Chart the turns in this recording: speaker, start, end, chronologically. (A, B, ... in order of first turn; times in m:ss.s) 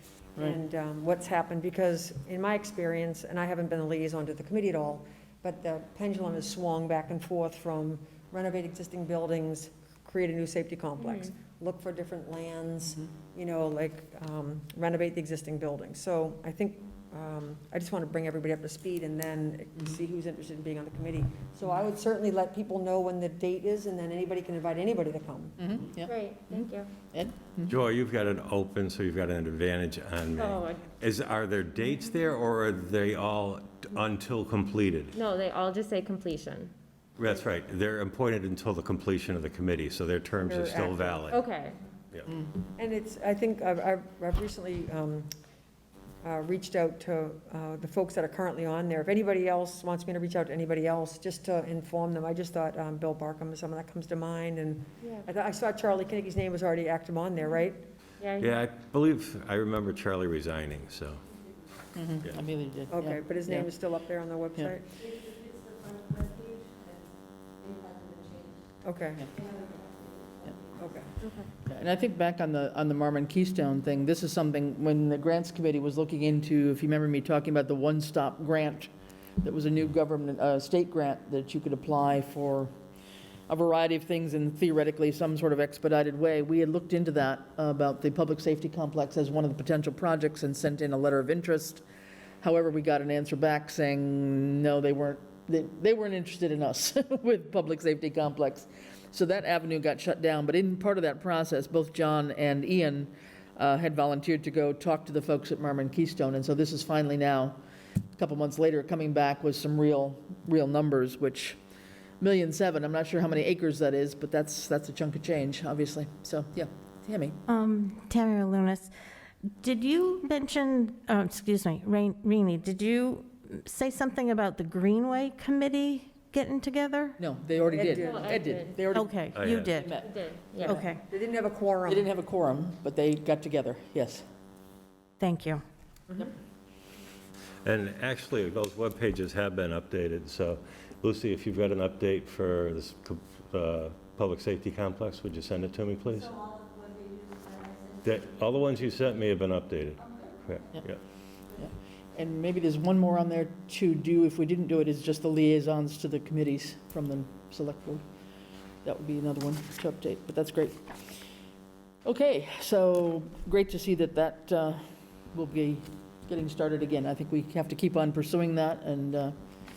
0:00.4-0:25.6 A
0:11.0-0:11.3 B
0:25.6-0:27.7 C
0:26.1-0:26.9 B
0:27.7-0:35.1 D
0:30.4-0:30.9 B
0:35.1-0:36.7 B
0:37.2-0:41.4 D
0:40.4-0:41.4 A
0:41.3-0:41.8 B
0:42.8-0:45.3 A
0:46.2-0:57.9 A
0:55.0-0:55.3 B
0:58.2-0:58.6 B
0:58.4-1:01.2 D
1:02.0-1:03.7 C
1:02.9-1:05.0 A
1:08.8-1:09.3 A
1:10.7-1:11.1 A
1:11.2-1:11.5 B
1:11.6-1:22.7 C
1:23.5-1:31.8 C
1:32.4-1:47.6 C
1:48.2-1:51.6 C
1:52.2-1:57.4 C
1:57.5-1:58.9 E
1:59.6-2:07.2 E
2:07.2-2:10.1 C
2:07.7-2:08.4 A
2:07.9-2:08.9 B
2:08.9-2:09.9 E
2:09.3-2:09.8 D
2:09.9-2:10.8 B
2:10.6-2:11.0 E
2:10.6-2:10.9 C
2:11.1-2:12.1 A
2:11.9-2:14.2 C
2:15.2-2:15.6 E
2:17.6-2:26.4 D
2:28.0-2:31.0 D
2:31.6-2:38.0 C
2:38.8-2:41.0 C
2:42.0-2:49.4 C